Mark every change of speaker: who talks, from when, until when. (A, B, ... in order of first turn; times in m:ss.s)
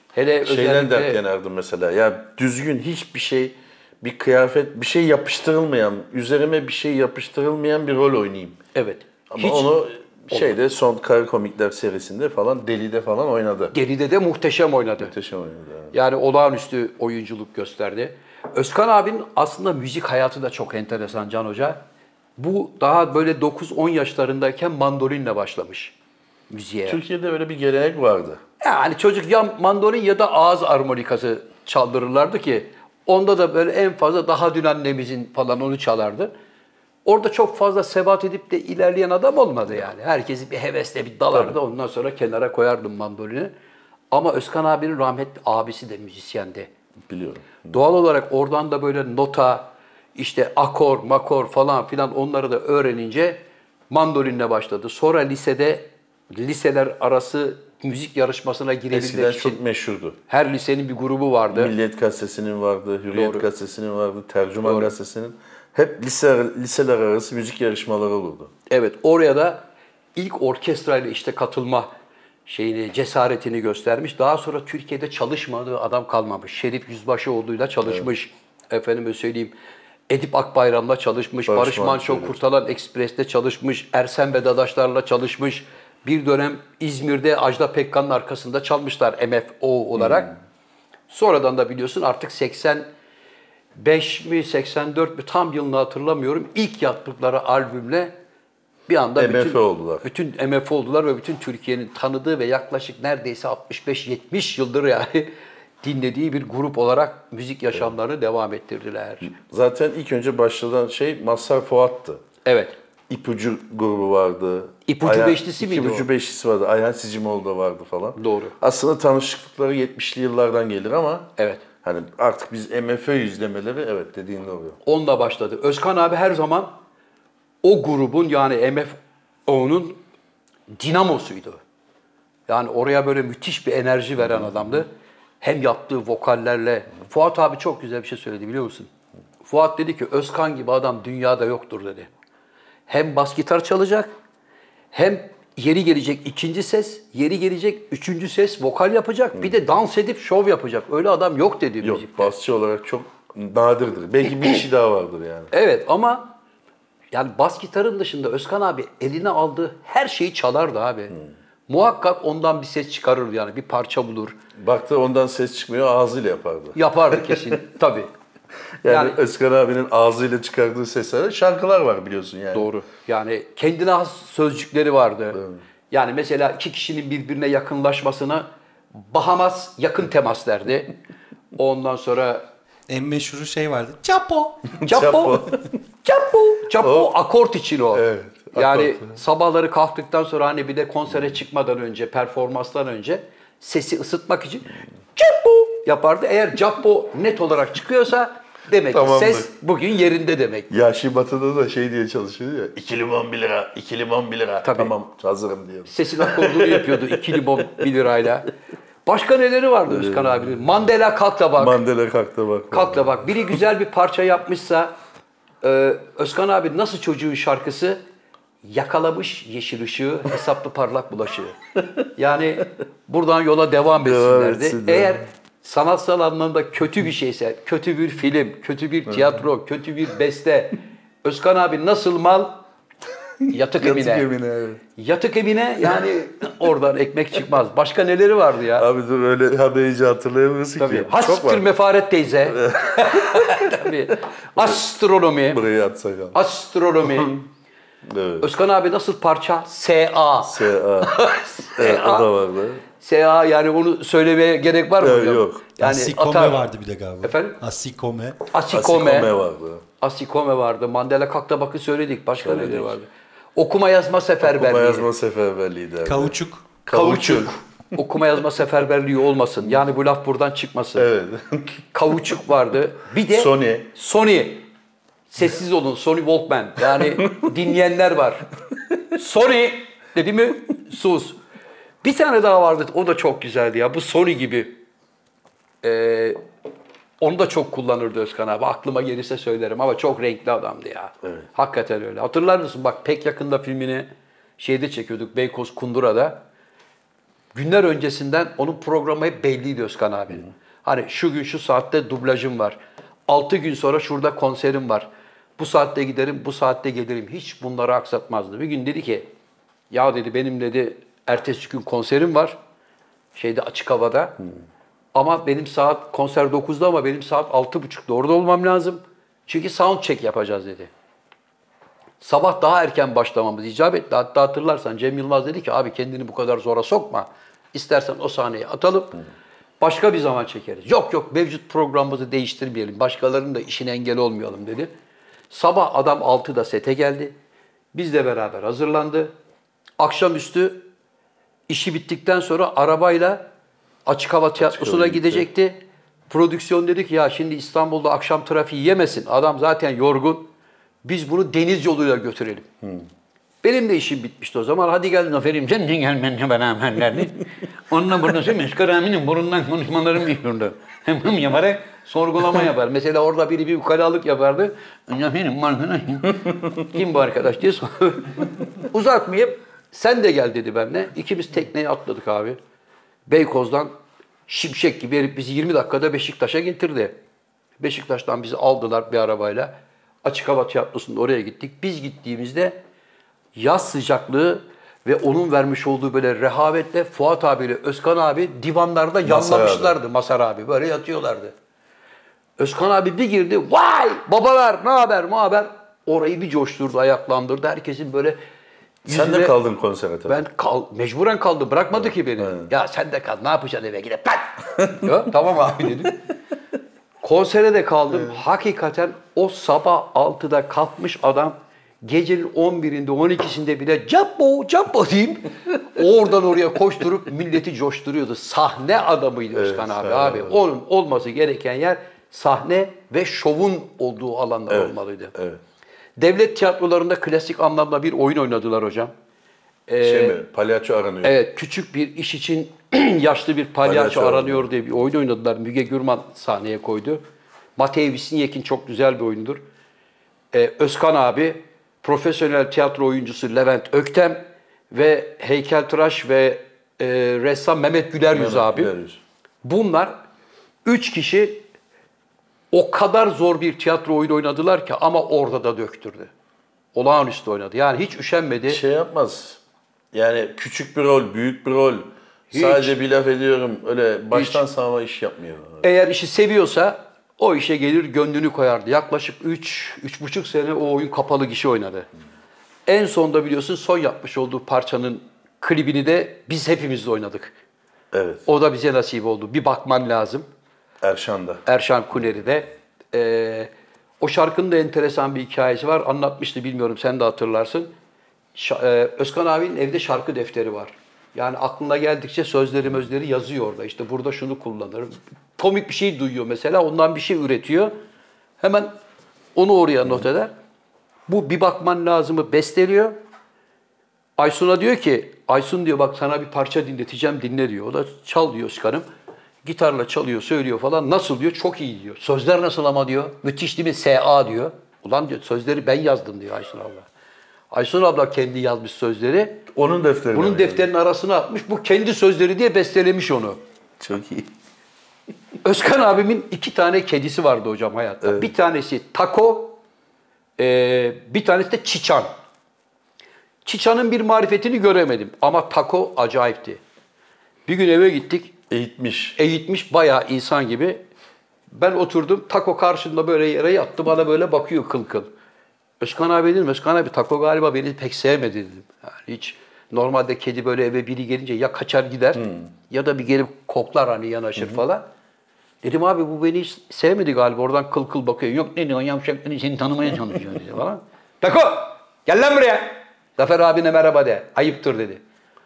0:00.1-0:01.2 A
0:00.4-0:08.6 B
0:08.8-0:09.7 A
0:09.3-0:13.7 B
0:10.3-0:10.6 A
0:13.7-0:15.1 A
0:15.0-0:15.9 B
0:15.9-0:21.8 A
0:22.4-0:25.9 A
0:26.5-0:27.0 A
0:26.9-0:28.4 B
0:28.6-0:36.3 A
0:37.0-0:43.5 A
0:44.1-0:46.7 A
0:47.1-0:47.7 B
0:47.7-0:59.6 A
0:58.9-1:00.2 B
1:00.3-1:01.7 A
1:01.5-1:08.5 B
1:03.1-1:03.4 A
1:04.6-1:04.9 A
1:08.7-1:11.9 A
1:12.4-1:19.5 A
1:20.1-1:30.3 A
1:21.5-1:22.4 B
1:30.0-1:30.3 B
1:31.1-1:32.9 A
1:33.8-1:38.1 A
1:38.9-1:45.3 A
1:39.2-1:40.0 B
1:45.8-1:49.3 A
1:49.2-1:52.2 B
1:52.4-1:52.8 A
1:53.1-2:01.3 B
1:54.8-1:56.1 A
1:58.2-1:58.5 A
2:01.4-2:01.6 A
2:01.8-2:04.8 B
2:04.8-2:06.7 A
2:07.6-2:08.9 A
2:09.5-2:10.0 A
2:10.7-2:11.6 A
2:12.5-2:14.9 A
2:15.4-2:18.9 A
2:19.4-2:22.1 A
2:22.9-2:24.1 A
2:24.9-2:32.3 A
2:31.8-2:35.5 B
2:35.5-2:36.3 A
2:37.1-2:41.2 A
2:41.7-2:44.4 A
2:44.6-2:47.6 B
2:46.8-2:48.1 A
2:48.8-2:52.7 B
2:48.8-2:49.2 A
2:52.5-3:00.9 A
2:55.3-2:55.6 B
3:01.5-3:02.4 A
3:02.9-3:04.7 C
3:04.8-3:05.7 B
3:04.8-3:20.7 A
3:06.8-3:07.1 B
3:07.9-3:09.2 B
3:18.9-3:19.5 B
3:20.7-3:27.6 B
3:24.6-3:24.9 A
3:25.9-3:28.5 A
3:29.0-3:31.8 A
3:29.9-3:30.5 B
3:31.6-3:33.6 B
3:32.7-3:34.9 A
3:35.6-3:38.0 A
3:38.6-3:41.6 A
3:42.2-3:52.6 A
3:44.0-3:45.2 B
3:53.4-3:54.8 B
3:53.5-3:54.3 A
3:55.0-3:58.9 A
3:58.8-4:01.6 B
4:00.8-4:05.6 A
4:02.5-4:03.9 B
4:05.5-4:06.4 B
4:06.3-4:07.4 A
4:07.1-4:07.4 B
4:08.0-4:08.5 B
4:08.4-4:12.3 A
4:10.4-4:11.1 B
4:11.7-4:12.8 B
4:13.0-4:16.6 A
4:15.0-4:15.7 B
4:15.8-4:18.4 C
4:17.2-4:17.6 A
4:18.5-4:19.3 A
4:18.7-4:19.8 B
4:20.0-4:25.1 A
4:22.4-4:23.0 B
4:24.4-4:27.5 B
4:26.0-4:26.8 C
4:26.9-4:31.1 A
4:31.0-4:31.8 B
4:31.9-4:34.6 A
4:33.3-4:33.9 B
4:35.3-4:38.5 A
4:39.1-4:41.4 A
4:42.0-4:44.8 A
4:45.8-4:46.4 A
4:47.2-4:54.1 A
4:54.6-4:56.4 A
4:57.5-5:09.3 A
5:09.9-5:12.6 A
5:13.3-5:14.4 A
5:15.1-5:20.9 A
5:22.2-5:29.2 A
5:29.8-5:34.9 A
5:35.5-5:37.3 A
5:37.9-5:39.3 A
5:40.0-5:40.8 A
5:41.7-5:43.5 A
5:44.0-5:45.8 A
5:44.6-5:45.5 B
5:46.3-5:50.5 A
5:51.0-5:52.7 A
5:53.6-6:12.6 A
6:13.3-6:13.9 A
6:14.5-6:17.2 A
6:17.8-6:19.7 A
6:20.2-6:22.8 A
6:23.5-6:31.5 A
6:29.2-6:30.0 B
6:32.6-6:38.4 A
6:39.0-6:39.5 A
6:39.1-6:40.4 B
6:40.3-6:46.2 A
6:42.4-6:42.7 B
6:47.2-7:05.3 A
6:59.5-7:00.6 B
7:04.7-7:05.6 B
7:06.2-7:09.1 A
7:09.9-7:10.4 A
7:10.0-7:11.4 B
7:11.2-7:17.2 A
7:13.8-7:14.7 B
7:17.8-7:19.6 A
7:20.5-7:28.9 A
7:28.3-7:29.2 B
7:29.6-7:30.1 A
7:30.8-7:31.6 A
7:32.7-7:36.3 A
7:36.9-7:38.8 A
7:38.7-7:39.6 B
7:40.1-7:45.8 B
7:42.5-7:43.0 A
7:44.3-7:44.6 A
7:45.8-7:52.1 A
7:52.9-7:57.5 A
7:58.1-7:58.4 B
7:58.4-8:00.5 A
8:01.0-8:01.6 B
8:01.6-8:07.9 A
8:08.5-8:17.9 A
8:18.6-8:18.9 A
8:19.5-8:20.5 A
8:21.3-8:23.1 A
8:24.4-8:29.1 A
8:29.6-8:37.1 A
8:37.7-8:39.6 A
8:39.7-8:40.9 B
8:40.3-8:43.6 A
8:44.0-8:44.5 B
8:45.6-8:49.8 A
8:48.2-8:48.5 B
8:50.6-8:52.3 A
8:53.6-8:56.8 A
8:57.7-8:58.5 A
8:58.7-8:59.4 B
8:59.4-9:01.0 A
9:01.7-9:05.3 A
9:06.0-9:15.1 A
9:12.4-9:12.7 B
9:15.8-9:25.2 A